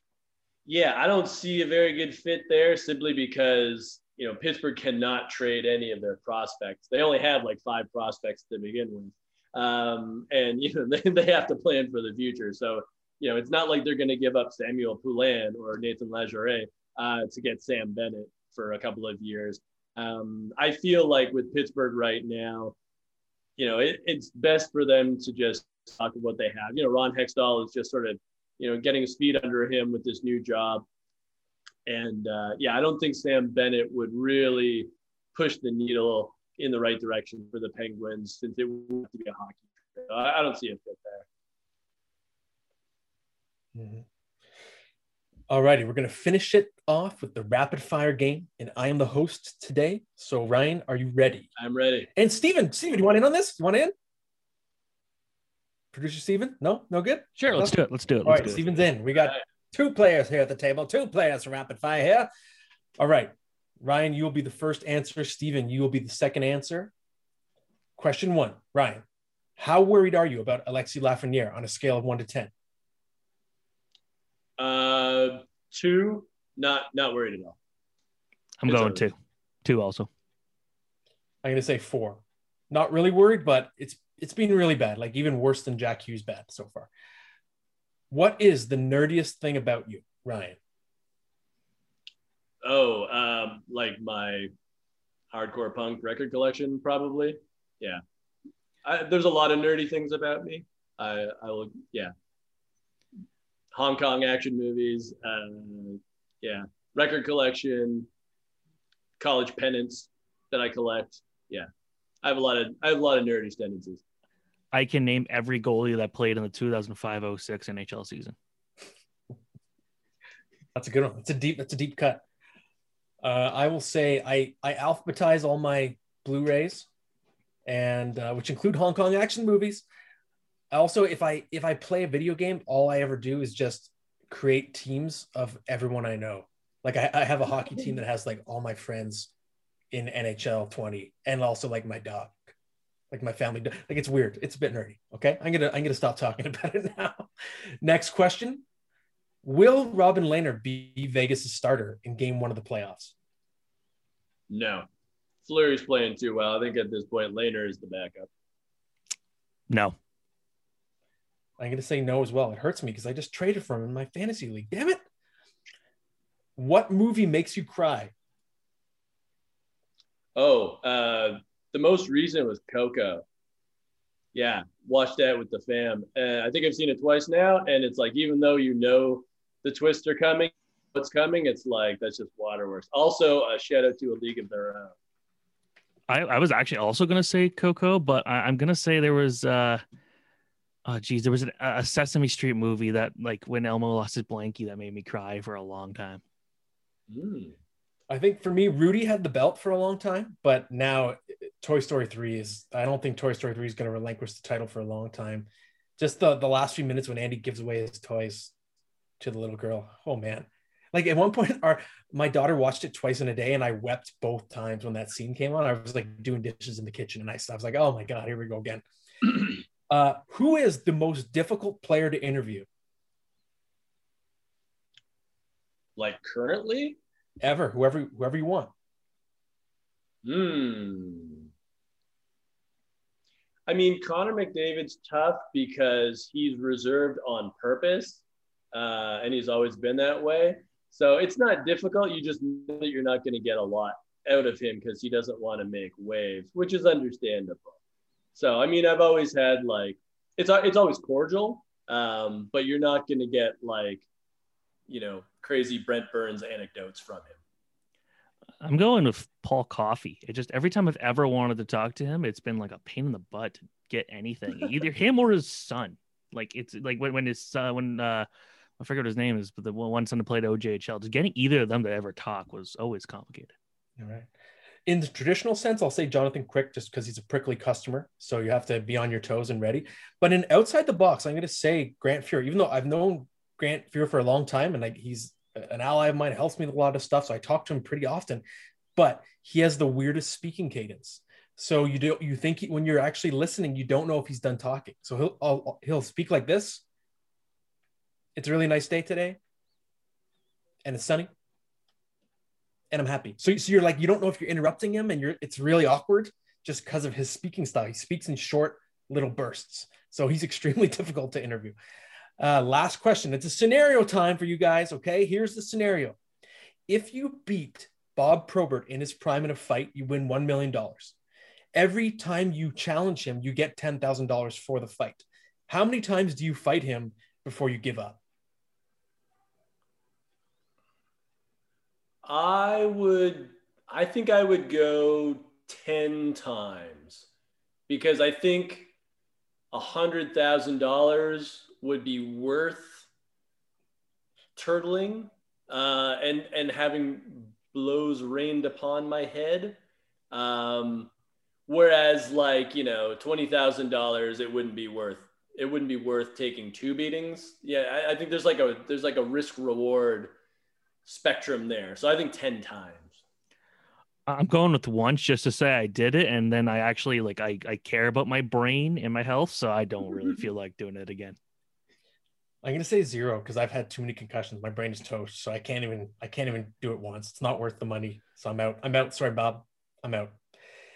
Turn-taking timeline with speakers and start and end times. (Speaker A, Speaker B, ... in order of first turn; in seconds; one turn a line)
Speaker A: 0.7-22.8
Speaker A: 23.6-30.9
Speaker A: 31.9-41.3
Speaker B: 43.8-44.0
Speaker B: 45.5-51.5
Speaker A: 51.6-52.1
Speaker B: 52.2-53.9
Speaker B: 55.9-62.3
Speaker C: 57.4-58.7
Speaker B: 63.0-66.9
Speaker B: 68.0-69.0
Speaker B: 69.6-72.5
Speaker A: 74.6-77.6
Speaker C: 78.6-79.1
Speaker A: 78.7-79.0
Speaker C: 79.6-80.1
Speaker B: 81.4-86.9
Speaker B: 88.1-90.6
Speaker A: 92.6-94.5
Speaker A: 95.3-98.0
Speaker A: 98.8-102.1
Speaker A: 103.8-108.1
Speaker A: 109.2-111.7
Speaker A: 112.2-114.0
Speaker C: 114.7-118.3
Speaker B: 120.8-122.2
Speaker B: 123.2-126.9
Speaker B: 127.7-129.8
Speaker B: 130.7-139.3
Speaker B: 139.9-142.5
Speaker B: 143.1-147.3
Speaker B: 147.8-148.6
Speaker B: 149.4-153.1
Speaker A: 154.5-154.9
Speaker A: 155.4-158.3
Speaker C: 159.7-160.0
Speaker B: 161.6-165.0
Speaker B: 166.6-168.1
Speaker A: 170.4-173.2
Speaker A: 174.3-185.0
Speaker C: 186.1-189.8
Speaker C: 190.9-196.2
Speaker A: 197.1-197.6
Speaker B: 198.1-208.5
Speaker B: 209.2-222.7
Speaker A: 226.0-227.0
Speaker B: 227.4-228.7
Speaker A: 230.2-231.5
Speaker A: 233.7-247.8
Speaker A: 248.3-254.1
Speaker A: 254.9-257.4
Speaker C: 258.6-268.3
Speaker C: 268.8-273.5
Speaker B: 274.0-274.3
Speaker B: 274.9-288.4
Speaker B: 289.0-296.8
Speaker B: 298.4-299.4
Speaker B: 300.8-301.3
Speaker B: 302.9-311.8
Speaker B: 312.4-316.2
Speaker B: 316.9-321.1
Speaker B: 321.8-328.2
Speaker A: 332.2-337.3
Speaker A: 337.9-338.9
Speaker A: 339.7-343.1
Speaker A: 344.6-349.8
Speaker A: 350.3-351.1
Speaker A: 351.7-360.3
Speaker A: 361.1-363.2
Speaker C: 364.3-371.4
Speaker B: 372.6-380.4